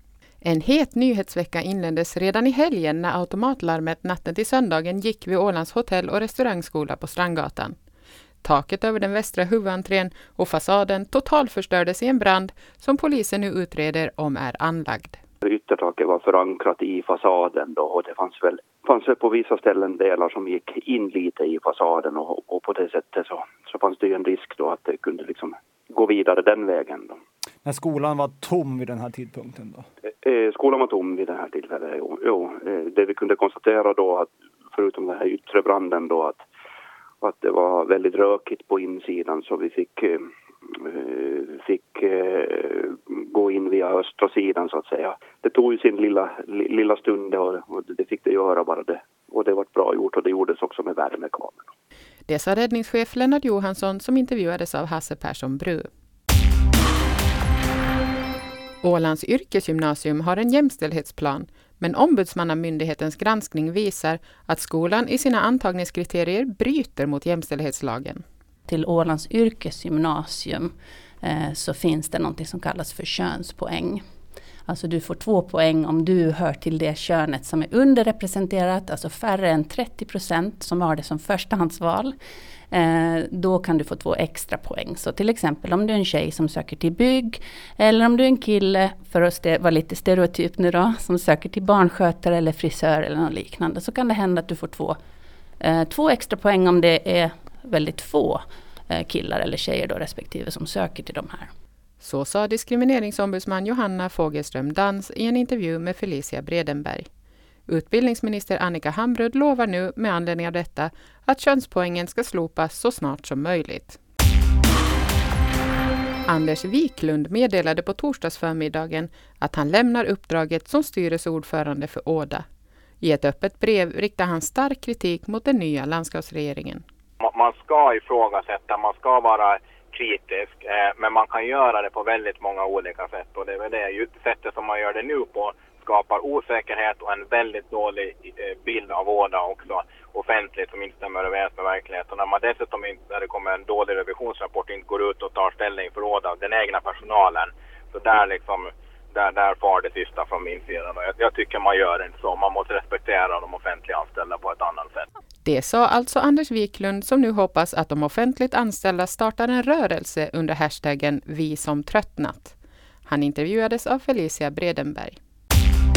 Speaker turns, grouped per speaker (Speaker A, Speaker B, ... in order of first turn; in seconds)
Speaker A: 0.4-7.8, 8.4-15.2, 52.3-55.9, 58.8-68.2, 102.0-107.1, 107.7-114.0, 116.3-122.5, 123.0-126.8, 155.4-162.6, 163.1-165.2
Speaker B: 15.5-27.2, 30.2-36.4, 37.2-40.2, 40.9-51.7
Speaker C: 27.6-29.9
Speaker D: 68.7-74.0, 74.7-82.2, 82.7-95.0, 95.6-101.5
Speaker E: 127.2-155.1